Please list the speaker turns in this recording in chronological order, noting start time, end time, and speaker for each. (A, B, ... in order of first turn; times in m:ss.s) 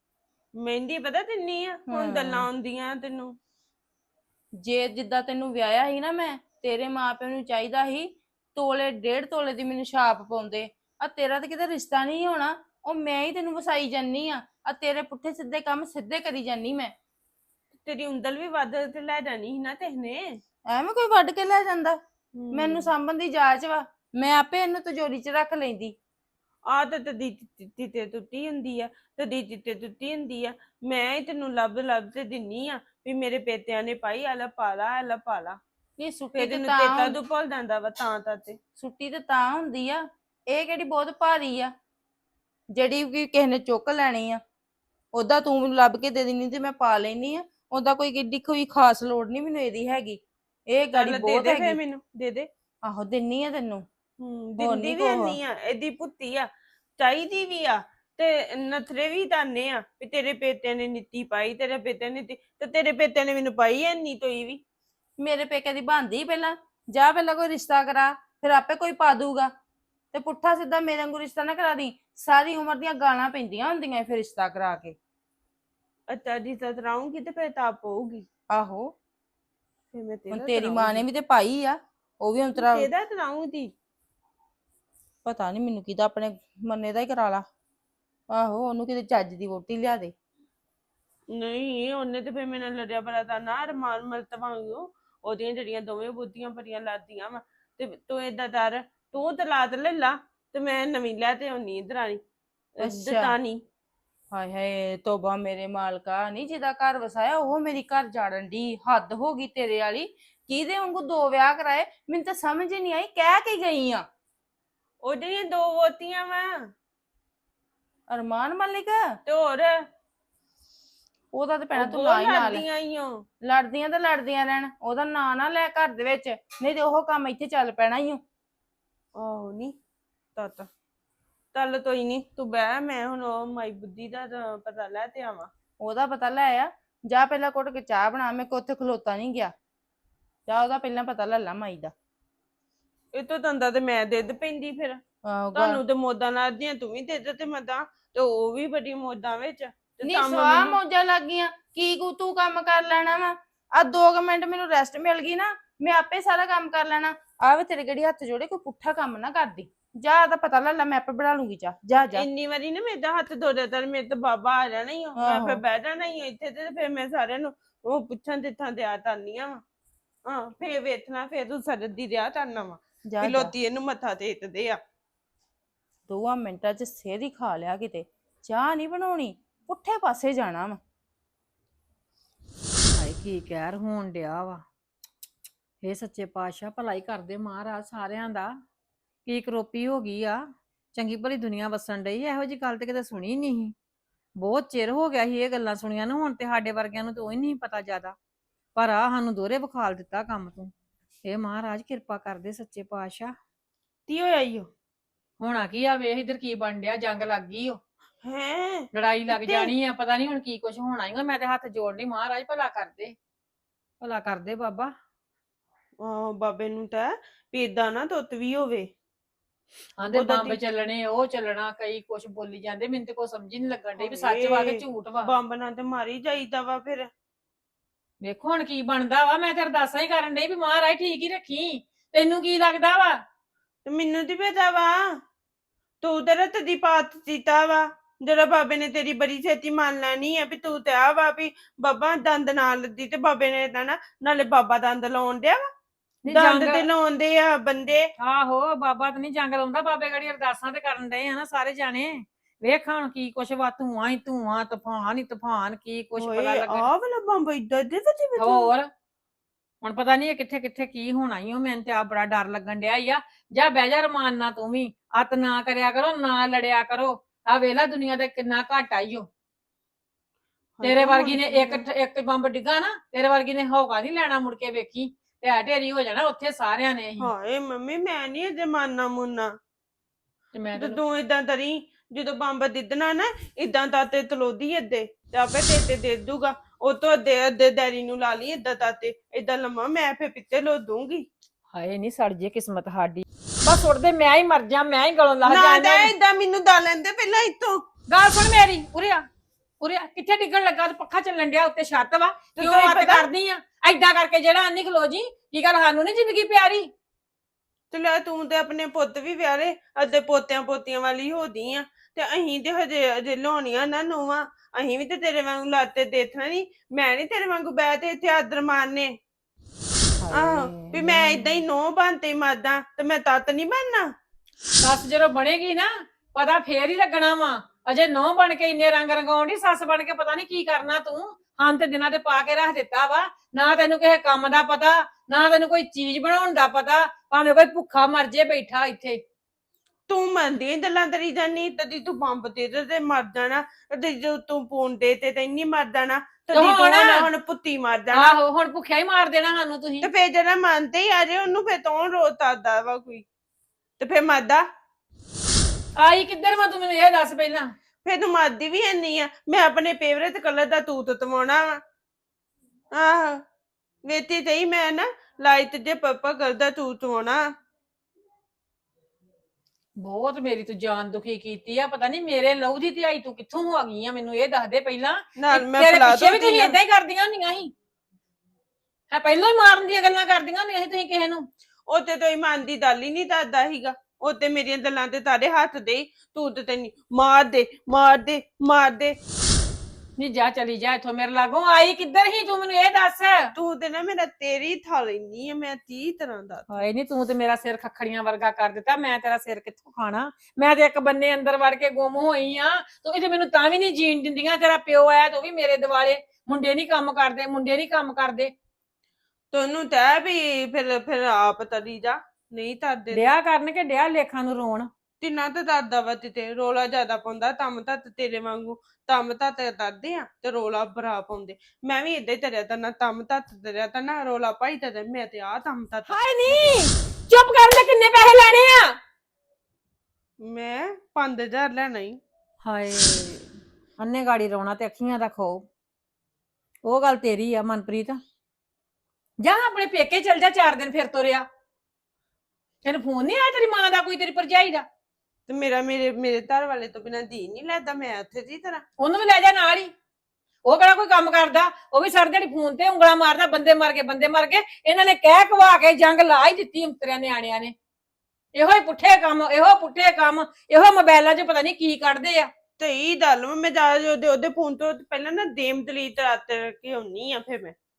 0:00.6-0:03.4 A
0:01.9-0:02.5 B
0:04.6-0:16.9 B
0:17.8-0:20.4 A
0:20.7-0:22.0 B
0:22.4-0:22.9 A
0:22.5-0:26.0 B
0:26.7-0:35.6 A
0:36.0-0:37.2 B
0:36.4-0:38.6 A
0:38.8-0:41.7 B
0:42.7-0:44.4 B
0:45.2-0:51.8 B
0:51.0-0:52.5 A
0:52.8-0:53.8 B
0:54.2-0:56.5 A
0:54.6-0:55.4 B
0:57.0-1:04.6 A
1:05.2-1:09.5 B
1:10.1-1:15.0 B
1:16.1-1:18.3 A
1:18.5-1:18.9 B
1:19.9-1:21.0 A
1:20.3-1:22.9 B
1:22.6-1:23.7 A
1:25.2-1:27.4 B
1:28.3-1:30.1 B
1:31.3-1:42.2 A
1:42.8-1:43.6 A
1:42.8-1:43.3 B
1:44.3-1:54.1 B
1:55.0-1:56.5 A
1:58.1-1:59.0 B
1:59.3-1:59.8 A
2:01.3-2:02.7 B
2:01.8-2:03.2 A
2:03.4-2:08.2 B
2:09.2-2:09.7 A
2:10.4-2:10.7 A
2:11.5-2:15.5 A
2:15.8-2:19.5 B
2:20.5-2:21.9 B
2:23.1-2:25.0 A
2:25.3-2:25.8 B
2:25.6-2:30.8 A
2:30.0-2:42.2 B
2:42.2-2:49.6 A
2:45.2-2:45.6 B
2:50.2-2:54.8 A
2:53.1-2:53.5 B
2:56.1-3:00.8 B
3:03.0-3:04.6 C
3:05.8-3:08.6 C
3:09.3-3:10.4 C
3:10.9-3:13.7 C
3:14.4-3:18.2 C
3:18.8-3:20.7 C
3:21.2-3:23.3 C
3:24.1-3:24.7 A
3:25.4-3:27.8 C
3:28.2-3:29.7 A
3:28.9-3:33.2 C
3:34.0-3:34.9 C
3:36.0-3:38.9 A
3:40.0-3:45.3 C
3:40.1-3:40.6 A
3:44.0-3:47.1 A
3:48.2-3:53.2 C
3:53.8-3:55.0 A
3:56.0-4:05.6 A
4:06.2-4:06.9 C
4:06.3-4:08.1 A
4:08.2-4:16.9 C
4:16.2-4:18.7 A
4:18.4-4:18.9 C
4:19.8-4:29.3 C
4:30.8-4:31.8 A
4:30.8-4:37.3 C
4:37.2-4:39.5 A
4:40.5-4:41.0 C
4:40.8-4:51.3 A
4:51.7-4:56.1 C
4:55.4-4:57.8 A
4:58.1-4:59.2 C
4:59.8-5:06.9 C
5:02.6-5:03.3 A
5:07.9-5:19.2 A
5:20.3-5:21.6 C
5:20.3-5:24.1 A
5:24.8-5:39.2 C
5:40.1-5:48.4 A
5:46.5-5:47.3 C
5:48.1-5:50.1 C
5:50.0-5:53.3 A
5:54.0-5:54.7 A
5:56.0-5:57.7 C
5:58.0-6:01.8 A
6:02.9-6:03.4 A
6:04.0-6:07.4 A
6:10.0-6:17.7 C
6:15.4-6:16.8 A
6:19.1-6:21.5 C
6:21.9-6:29.2 A
6:30.2-6:33.5 C
6:33.5-6:36.8 A
6:36.7-6:48.5 C
6:49.5-6:53.3 A
6:53.1-6:54.9 C
6:55.2-7:06.6 A
7:06.1-7:09.0 C
7:10.4-7:12.2 A
7:12.6-7:15.6 C
7:16.8-7:18.2 C
7:19.4-7:21.5 C
7:22.8-7:24.9 C
7:25.5-7:28.8 A
7:29.0-7:29.9 C
7:30.6-7:37.7 C
7:38.5-7:42.5 C
7:42.8-7:47.8 A